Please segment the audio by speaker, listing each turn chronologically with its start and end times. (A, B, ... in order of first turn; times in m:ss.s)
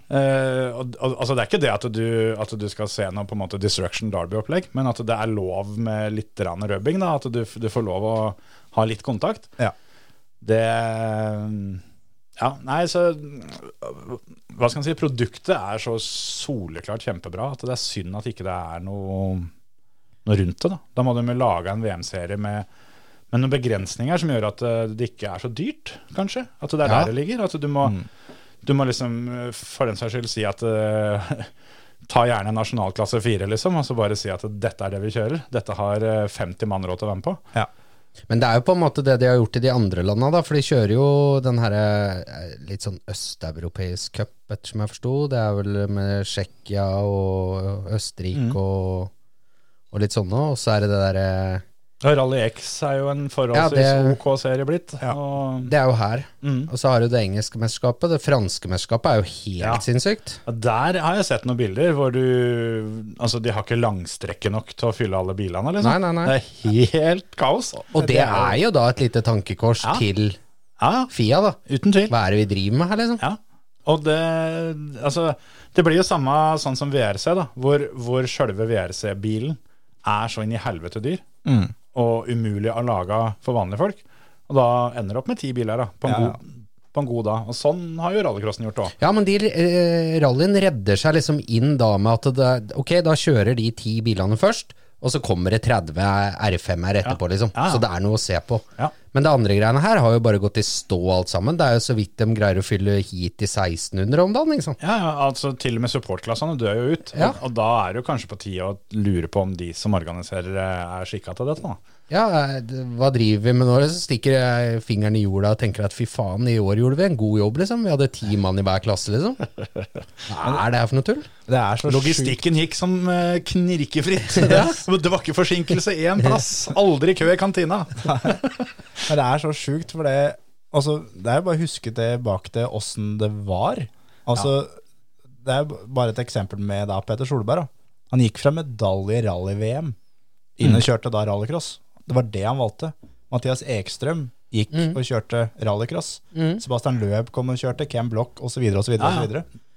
0:00.1-0:09.5 A
0:10.4-0:11.8 A
0:12.4-0:19.5 A
0:20.2-0:22.7 A
0:23.3-0:28.0 A
0:26.8-0:27.1 B
0:28.6-0:31.5 A
0:32.1-0:37.4 A
0:38.3-0:49.1 B
0:49.9-0:51.6 B
0:52.0-0:55.7 A
0:53.5-0:54.2 B
0:55.7-1:00.4 B
0:56.4-0:56.7 A
1:00.5-1:08.6 A
1:05.8-1:06.4 B
1:07.9-1:10.4 B
1:10.8-1:11.1 A
1:11.1-1:11.6 B
1:11.7-1:12.1 A
1:12.1-1:13.2 B
1:13.2-1:21.2 A
1:21.4-1:21.7 C
1:21.9-1:28.9 A
1:26.1-1:26.4 C
1:29.0-1:44.8 B
1:37.0-1:37.8 A
1:44.8-1:51.8 A
1:52.1-1:59.4 B
2:00.3-2:01.3 B
2:01.5-2:02.4 C
2:01.8-2:08.7 A
2:04.4-2:04.8 B
2:08.1-2:08.4 C
2:09.1-2:14.8 C
2:15.4-2:20.0 C
2:20.6-2:29.5 C
2:26.3-2:26.6 B
2:29.0-2:29.3 A